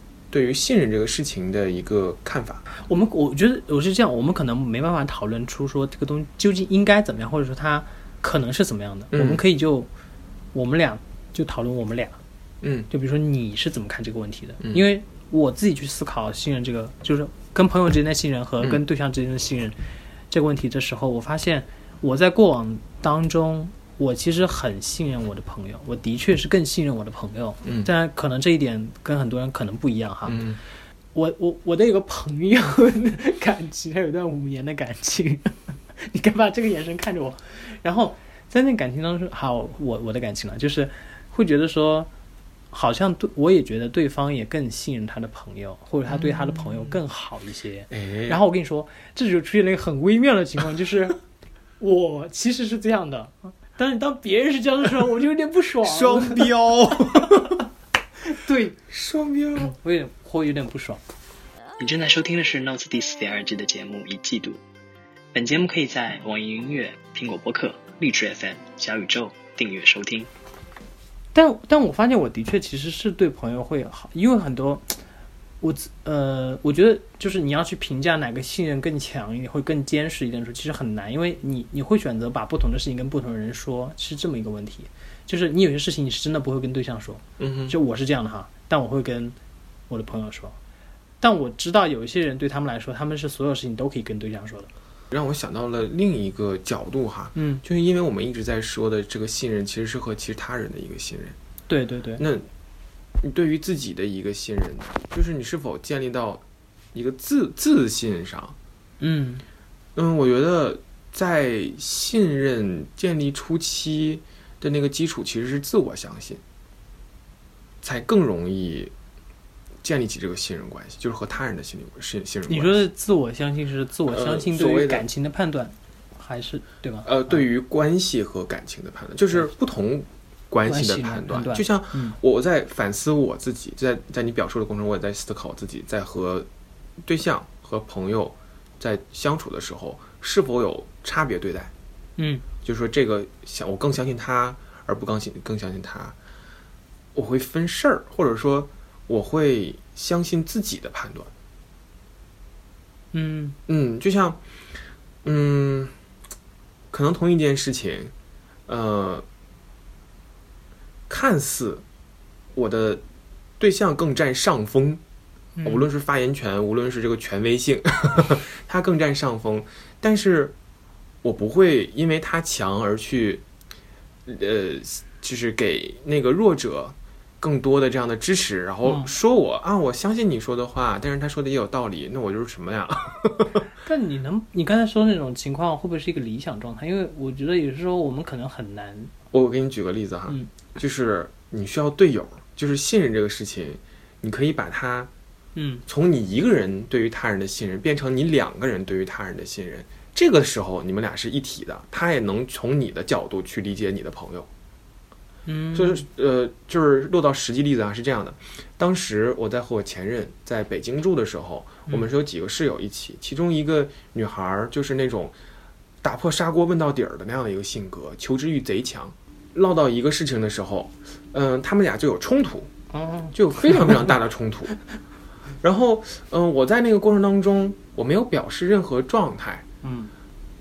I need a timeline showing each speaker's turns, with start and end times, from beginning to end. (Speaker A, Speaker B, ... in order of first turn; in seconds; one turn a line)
Speaker A: 0.3-2.6
Speaker B: 2.7-9.9
Speaker A: 9.1-9.4
Speaker B: 10.5-12.2
Speaker A: 12.6-12.9
Speaker B: 12.9-19.8
Speaker B: 20.3-30.4
Speaker A: 27.6-27.9
Speaker A: 30.3-30.6
Speaker B: 31.1-42.1
Speaker B: 42.7-51.2
Speaker A: 46.1-46.6
Speaker A: 47.9-48.4
Speaker B: 51.8-56.5
Speaker A: 55.8-57.6
Speaker B: 58.2-58.8
Speaker A: 58.9-59.7
Speaker B: 59.6-61.0
Speaker C: 61.8-64.6
Speaker C: 65.3-70.3
Speaker B: 71.3-75.0
Speaker B: 75.6-89.4
Speaker A: 87.4-87.8
Speaker B: 89.9-90.6
Speaker B: 91.2-94.7
Speaker A: 95.1-101.4
Speaker B: 97.3-97.6
Speaker B: 101.7-102.2
Speaker A: 102.2-102.5
Speaker A: 103.2-106.4
Speaker A: 106.9-108.6
Speaker B: 109.0-109.4
Speaker A: 110.0-116.4
Speaker A: 117.8-118.9
Speaker A: 119.8-122.8
Speaker B: 122.5-127.4
Speaker A: 124.1-125.1
Speaker A: 127.0-136.5
Speaker B: 130.7-132.2
Speaker A: 137.0-141.7
Speaker B: 142.2-142.4
Speaker A: 142.6-146.2
Speaker A: 147.2-151.3
Speaker B: 153.1-153.6
Speaker A: 153.7-154.4
Speaker A: 155.2-155.9
Speaker A: 156.9-158.1
Speaker A: 158.7-159.3
Speaker A: 161.1-161.8
Speaker A: 162.6-163.0
Speaker A: 163.6-165.0
Speaker B: 165.6-165.9
Speaker A: 165.6-170.5
Speaker A: 171.2-173.4
Speaker A: 174.3-183.6
Speaker B: 178.8-179.1
Speaker B: 183.8-189.1
Speaker A: 189.3-195.1
Speaker B: 195.6-195.8
Speaker A: 195.9-204.5
Speaker B: 205.5-206.0
Speaker A: 205.7-215.3
Speaker A: 216.0-222.7
Speaker B: 222.9-224.1
Speaker A: 223.3-224.8
Speaker A: 225.6-229.7
Speaker B: 229.8-230.1